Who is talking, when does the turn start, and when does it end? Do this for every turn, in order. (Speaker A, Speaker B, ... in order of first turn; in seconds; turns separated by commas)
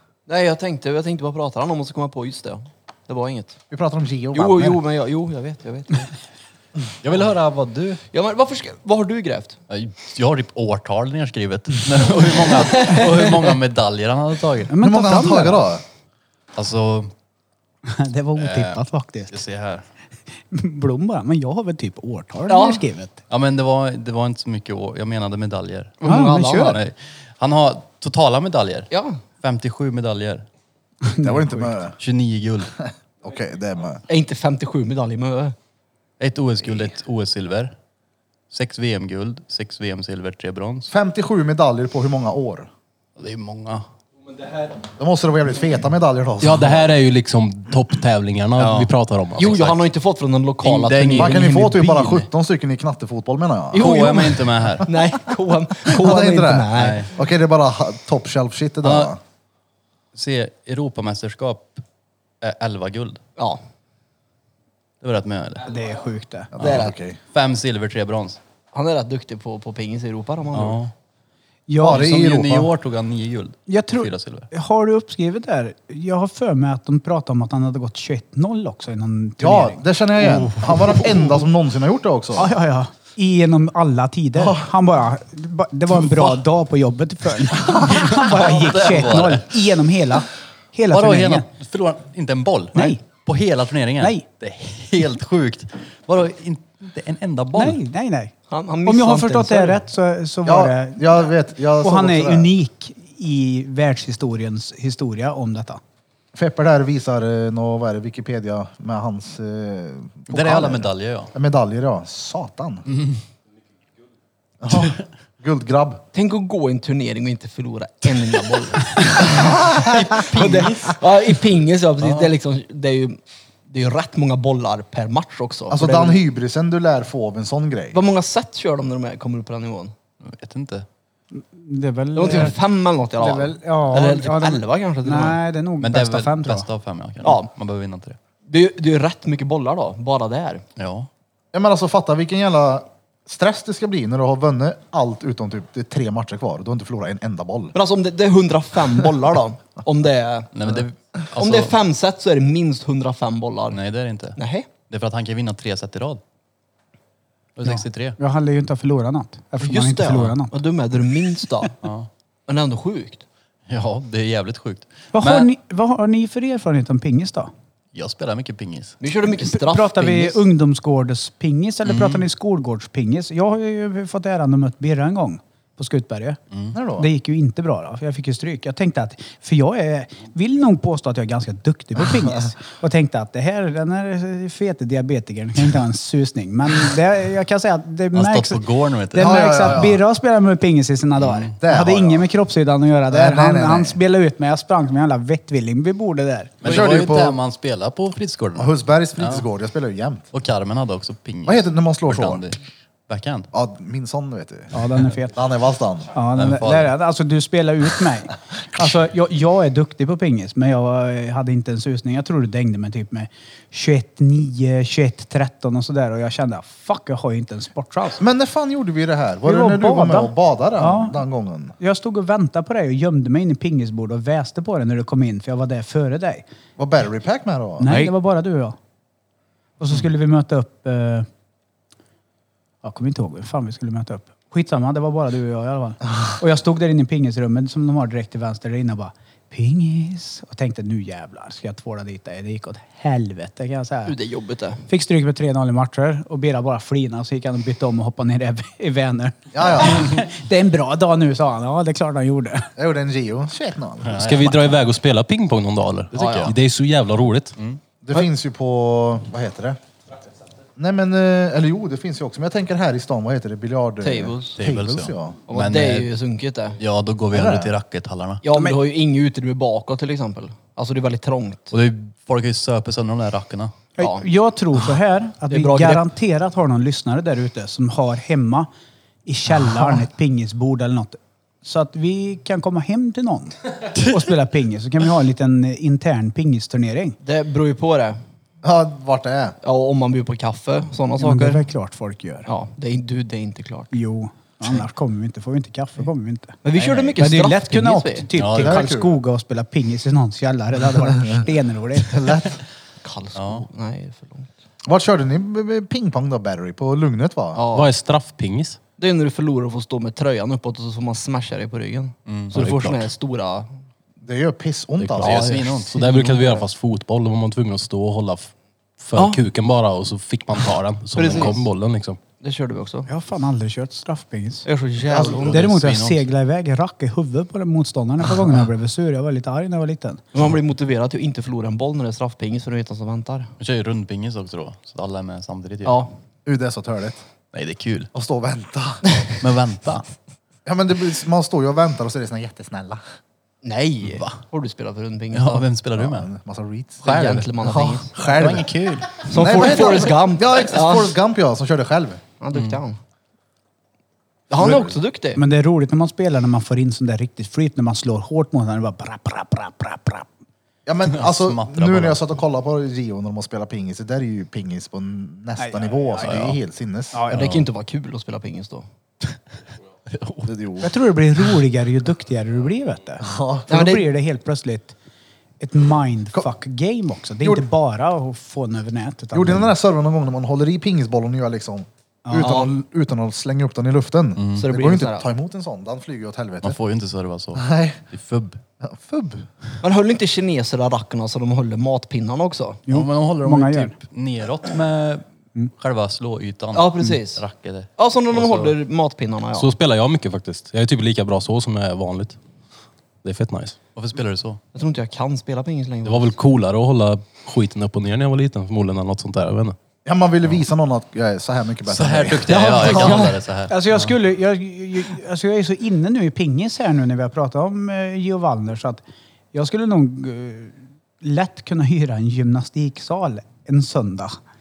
Speaker A: 0.3-3.6, Speaker B: 3.7-4.8, Speaker A: 4.3-6.1, Speaker C: 7.0-8.0, Speaker A: 8.1-9.6, Speaker C: 9.7-14.7, Speaker A: 12.4-13.3, Speaker D: 14.7-15.7, Speaker B: 14.8-15.8, Speaker C: 16.5-17.1, Speaker D: 17.8-19.3, Speaker C: 18.4-19.9, Speaker D: 20.5-23.2, Speaker A: 22.5-22.8, Speaker C: 23.3-30.4, Speaker A: 26.0-26.8, Speaker D: 26.0-26.8, Speaker A: 28.9-29.2, Speaker D: 31.0-31.7, Speaker B: 31.2-31.9, Speaker C: 32.0-32.7, Speaker B: 32.8-34.0, Speaker A: 34.1-35.5, Speaker C: 36.2-37.7, Speaker C: 38.5-40.9, Speaker B: 40.9-42.7, Speaker C: 43.2-43.9, Speaker B: 45.0-46.9, Speaker E: 46.4-49.6, Speaker C: 48.6-49.8, Speaker A: 49.4-51.8, Speaker C: 50.6-52.3, Speaker B: 51.1-53.9, Speaker C: 53.7-54.9, Speaker A: 53.7-57.1, Speaker B: 55.8-59.2, Speaker C: 56.7-57.1, Speaker C: 58.8-59.1, Speaker C: 60.1-61.8, Speaker C: 62.4-63.2, Speaker C: 65.0-65.7, Speaker D: 65.7-66.5, Speaker B: 66.5-67.2, Speaker A: 66.6-66.9, Speaker C: 66.6-68.4, Speaker A: 68.7-70.8, Speaker C: 70.5-70.9, Speaker D: 71.7-72.1, Speaker B: 71.8-72.7, Speaker C: 71.8-74.5, Speaker D: 73.7-79.8, Speaker B: 79.4-82.5, Speaker C: 80.2-81.4, Speaker D: 82.3-91.5, Speaker B: 84.3-84.7, Speaker C: 87.7-89.5, Speaker C: 90.9-97.8, Speaker D: 92.7-93.0, Speaker D: 97.5-98.3, Speaker A: 98.5-99.8, Speaker D: 98.8-101.1, Speaker B: 100.4-102.5, Speaker D: 101.7-105.8, Speaker B: 106.3-112.8, Speaker C: 110.3-111.3, Speaker C: 112.9-113.2, Speaker B: 114.6-116.0, Speaker A: 116.1-126.2, Speaker C: 119.1-121.0, Speaker B: 119.2-120.0, Speaker C: 122.0-122.3, Speaker B: 125.7-128.0, Speaker A: 127.9-129.9, Speaker C: 130.2-130.9, Speaker D: 131.3-132.6, Speaker A: 132.1-135.4, Speaker D: 133.2-136.7, Speaker C: 135.8-138.2, Speaker A: 137.2-137.5, Speaker A: 138.5-140.7, Speaker C: 140.8-141.1, Speaker B: 141.5-147.7, Speaker A: 147.7-150.8, Speaker C: 150.5-151.7, Speaker A: 151.3-153.8, Speaker C: 153.7-156.2, Speaker A: 154.3-154.7, Speaker C: 157.6-158.2, Speaker D: 157.6-160.5, Speaker A: 159.6-161.8, Speaker C: 161.8-162.1, Speaker A: 162.5-163.2, Speaker C: 163.7-165.5, Speaker D: 165.1-167.5, Speaker C: 167.9-169.0, Speaker A: 169.0-170.4, Speaker D: 169.3-176.4, Speaker C: 171.8-172.2, Speaker C: 176.5-176.8, Speaker B: 176.7-177.1, Speaker D: 176.9-196.6, Speaker C: 188.1-189.8, Speaker B: 189.2-190.0, Speaker C: 191.2-191.5, Speaker B: 191.6-192.2, Speaker B: 193.1-194.0, Speaker B: 196.6-197.4, Speaker C: 196.6-199.4, Speaker B: 198.6-200.3, Speaker C: 200.3-203.5, Speaker B: 201.4-202.5, Speaker B: 203.5-204.7, Speaker D: 204.7-205.3, Speaker B: 205.3-206.1, Speaker D: 206.1-218.2, Speaker C: 206.3-206.9, Speaker B: 218.2-221.8, Speaker D: 219.4-221.2, Speaker D: 221.8-226.4, Speaker B: 226.8-228.0, Speaker D: 227.8-228.8, Speaker D: 229.8-231.3, Speaker D: 232.8-244.2, Speaker A: 244.1-244.8, Speaker D: 244.9-252.7, Speaker B: 249.5-250.2, Speaker B: 252.8-254.7, Speaker C: 254.1-254.7, Speaker E: 254.1-257.6, Speaker C: 256.1-256.5, Speaker A: 256.1-256.5, Speaker B: 258.0-259.8, Speaker B: 260.8-265.4, Speaker A: 264.0-264.6, Speaker C: 264.6-266.1, Speaker A: 265.5-266.8, Speaker C: 266.8-268.4, Speaker B: 267.3-267.7, Speaker A: 268.4-271.7, Speaker C: 271.7-273.7, Speaker D: 274.0-278.7, Speaker A: 274.0-274.2, Speaker A: 275.5-276.1, Speaker D: 279.2-287.2, Speaker A: 287.2-288.2, Speaker B: 288.6-289.6, Speaker A: 289.6-291.6, Speaker D: 291.2-292.5, Speaker A: 292.4-293.9, Speaker D: 293.9-296.6, Speaker A: 296.6-298.3, Speaker B: 296.7-297.2, Speaker D: 297.2-302.2, Speaker C: 298.4-298.9, Speaker B: 298.6-299.1, Speaker B: 301.1-301.4, Speaker B: 302.0-302.6, Speaker A: 303.0-304.5, Speaker C: 303.4-303.6, Speaker B: 304.9-307.6, Speaker A: 307.5-307.9, Speaker E: 307.7-308.8, Speaker A: 309.0-313.7, Speaker C: 312.3-313.1, Speaker B: 314.2-315.7, Speaker E: 315.0-322.2, Speaker C: 315.2-316.6, Speaker A: 319.1-319.4, Speaker A: 321.1-321.6, Speaker A: 322.4-323.1, Speaker D: 323.1-324.6, Speaker A: 324.6-325.6, Speaker B: 325.1-325.5, Speaker C: 325.4-326.3, Speaker D: 325.4-330.2, Speaker A: 330.3-333.5, Speaker C: 333.6-336.0, Speaker A: 335.8-336.1, Speaker B: 336.4-337.2, Speaker C: 337.5-338.1, Speaker B: 338.1-339.1, Speaker C: 339.4-340.1, Speaker B: 340.6-343.0, Speaker A: 343.6-345.6, Speaker C: 344.0-344.4, Speaker C: 345.3-346.3, Speaker B: 345.9-348.7, Speaker A: 347.0-348.1, Speaker C: 347.1-349.8, Speaker A: 349.2-351.1, Speaker B: 349.3-352.2, Speaker A: 352.4-353.0, Speaker C: 352.5-352.8, Speaker A: 354.5-355.4, Speaker B: 354.6-355.0, Speaker D: 355.4-360.3, Speaker B: 360.9-367.3, Speaker C: 361.1-362.3, Speaker D: 365.6-366.4, Speaker C: 366.2-366.6, Speaker A: 367.3-368.9, Speaker C: 367.3-367.7, Speaker C: 370.1-370.5, Speaker B: 370.4-370.9, Speaker D: 370.8-374.9, Speaker B: 373.2-373.9, Speaker A: 373.7-374.0, Speaker D: 375.6-379.7, Speaker B: 377.4-377.6, Speaker B: 379.3-386.8, Speaker D: 382.3-382.6, Speaker A: 382.3-382.7, Speaker C: 384.4-384.6, Speaker A: 384.6-385.3, Speaker C: 386.6-388.6, Speaker B: 387.5-388.0, Speaker B: 388.8-389.5, Speaker A: 389.8-392.8, Speaker D: 392.9-393.9, Speaker C: 392.9-398.7, Speaker A: 396.7-397.4, Speaker A: 398.0-399.7, Speaker E: 399.5-402.4, Speaker E: 403.2-403.8, Speaker C: 403.9-404.6, Speaker A: 404.7-406.3, Speaker E: 406.0-409.8, Speaker B: 410.0-413.2, Speaker C: 411.9-414.1, Speaker A: 412.5-413.4, Speaker D: 413.7-419.0, Speaker D: 419.5-424.4